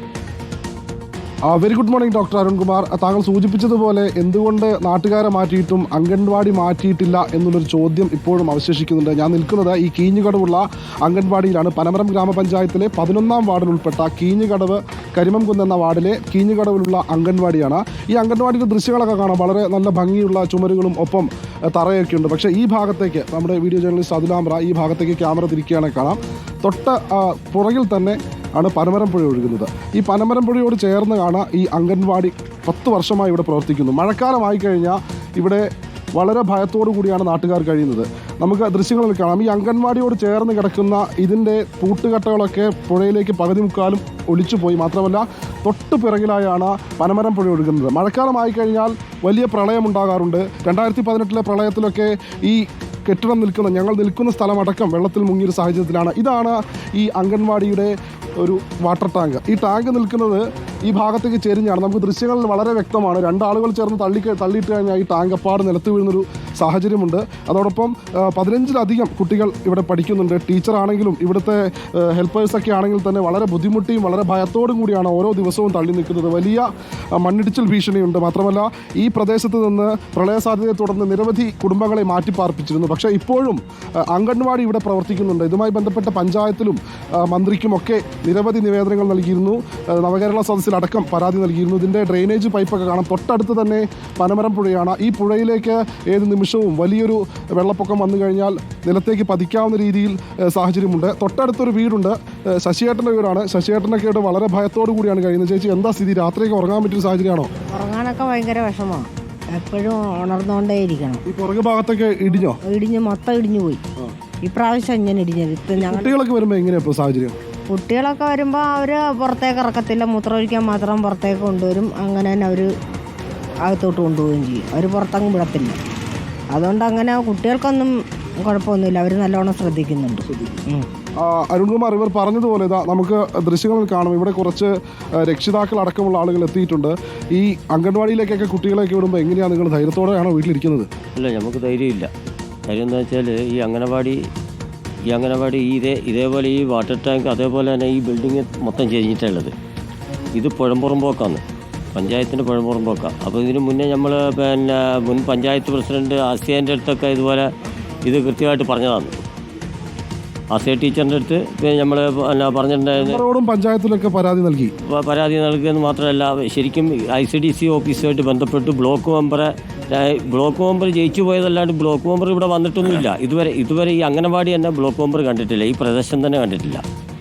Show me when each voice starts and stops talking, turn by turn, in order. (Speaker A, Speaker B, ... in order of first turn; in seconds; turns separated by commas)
Speaker A: 1.5-35.6, Speaker A: 36.2-83.6, Speaker A: 84.1-107.5, Speaker B: 107.7-111.2, Speaker A: 111.3-112.6, Speaker B: 112.6-113.8, Speaker B: 114.5-116.1, Speaker A: 115.8-117.4, Speaker B: 117.7-122.7, Speaker B: 123.7-125.8, Speaker B: 126.5-130.9, Speaker A: 131.2-140.9, Speaker C: 141.2-142.1, Speaker C: 142.7-144.2, Speaker C: 145.1-149.5, Speaker C: 150.3-151.4, Speaker C: 151.9-157.5, Speaker C: 158.0-159.2, Speaker C: 160.5-163.2, Speaker A: 163.0-164.7, Speaker C: 164.9-176.8